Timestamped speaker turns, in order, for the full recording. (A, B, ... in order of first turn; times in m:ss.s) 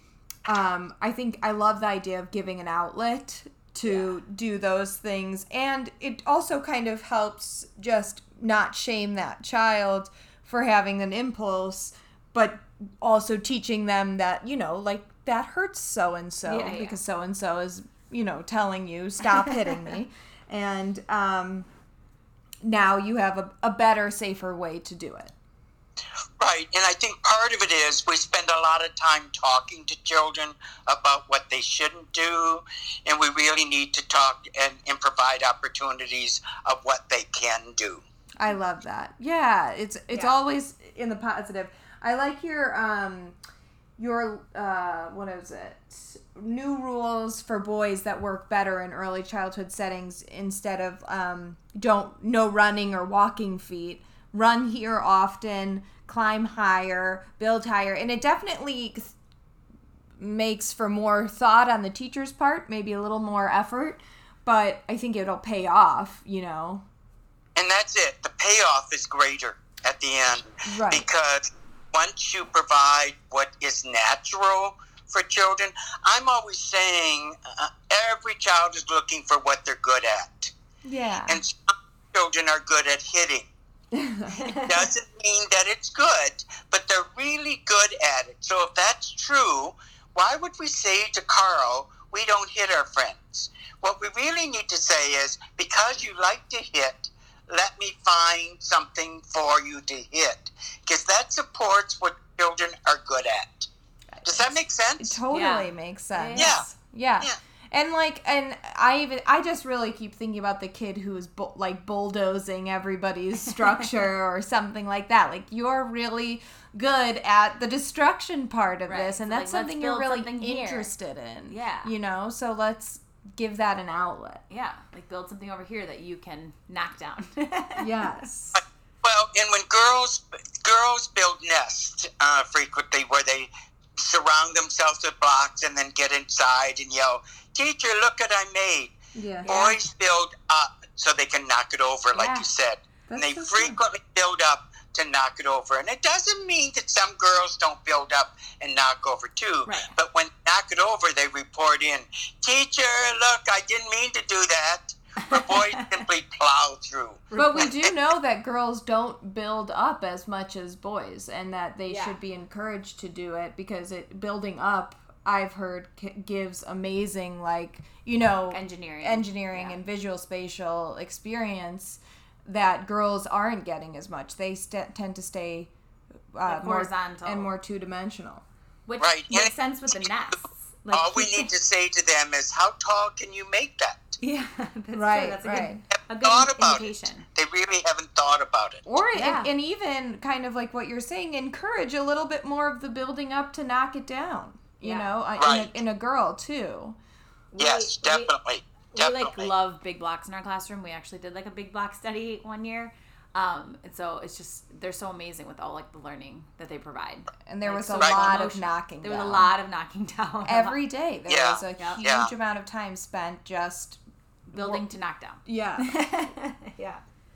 0:00.5-0:21.7 A
0:03.9-0:04.1 B
0:16.5-0:17.0 B
0:22.6-0:25.3 A
0:26.4-0:38.0 C
0:38.4-0:43.4 A
0:44.0-0:59.2 A
1:00.2-1:06.9 A
1:07.6-1:20.5 C
1:10.6-1:11.0 A
1:20.8-1:21.4 A
1:21.3-1:23.5 C
1:23.9-1:24.4 A
1:24.4-1:43.7 C
1:44.2-2:04.4 A
1:44.2-1:45.2 C
1:45.3-1:46.6 B
1:46.4-1:46.7 C
1:58.9-2:00.9 B
2:01.5-2:01.9 B
2:04.5-2:08.1 B
2:07.8-2:08.6 A
2:08.6-2:37.9 C
2:19.2-2:19.5 A
2:19.4-2:19.8 B
2:22.1-2:22.5 B
2:23.1-2:23.8 A
2:29.7-2:30.0 B
2:35.3-2:35.9 B
2:37.3-2:37.7 B
2:37.4-2:55.7 A
2:41.9-2:42.2 B
2:48.5-2:49.8 B
2:56.3-2:58.4 A
2:56.5-2:57.5 B
2:58.9-3:01.5 B
2:59.0-3:00.1 C
3:00.9-3:04.2 C
3:04.2-3:07.3 B
3:04.9-3:05.8 A
3:06.2-3:08.8 C
3:08.9-3:17.0 A
3:09.1-3:09.5 B
3:14.8-3:15.1 B
3:15.4-3:15.8 C
3:17.5-3:18.3 B
3:17.6-3:19.5 C
3:18.9-3:30.8 B
3:27.5-3:29.5 A
3:28.0-3:28.4 C
3:30.4-3:34.0 A
3:31.3-3:32.3 C
3:31.8-3:32.1 B
3:34.5-3:37.0 B
3:34.6-3:34.8 A
3:35.5-3:35.9 A